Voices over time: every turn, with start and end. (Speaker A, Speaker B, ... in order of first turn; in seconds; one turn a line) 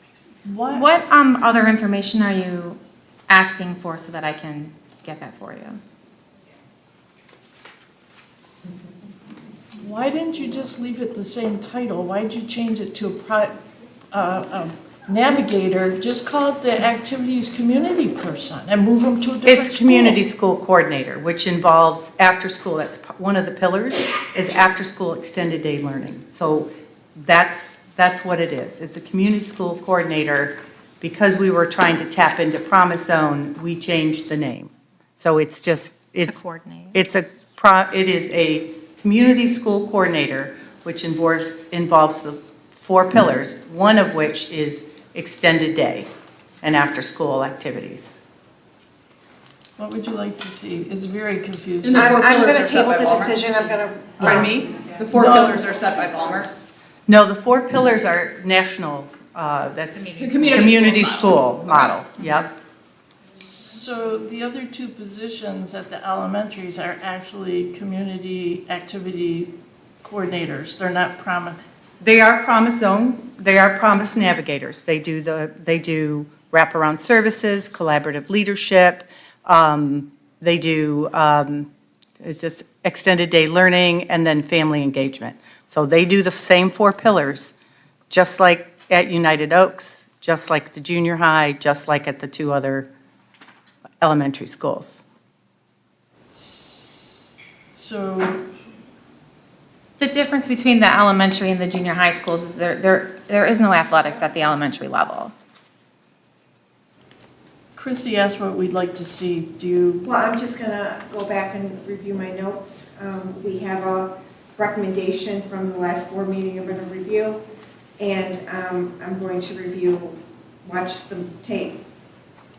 Speaker A: 0.5-0.9
Speaker B: 0.7-5.8
Speaker A: 9.8-13.5
Speaker A: 14.1-20.2
Speaker C: 19.4-36.4
Speaker B: 36.2-37.0
Speaker C: 36.9-46.1
Speaker C: 46.6-48.2
Speaker A: 49.8-52.1
Speaker D: 51.8-54.5
Speaker E: 51.9-54.6
Speaker C: 54.2-54.7
Speaker D: 55.0-56.5
Speaker A: 55.1-55.6
Speaker C: 57.1-62.5
Speaker B: 59.9-60.8
Speaker D: 60.2-61.9
Speaker A: 63.4-71.6
Speaker C: 72.0-81.7
Speaker C: 82.2-87.5
Speaker C: 88.1-92.9
Speaker C: 94.0-95.0
Speaker A: 96.3-98.4
Speaker B: 100.0-105.3
Speaker A: 107.8-110.0
Speaker E: 110.0-117.4
Speaker E: 118.0-121.8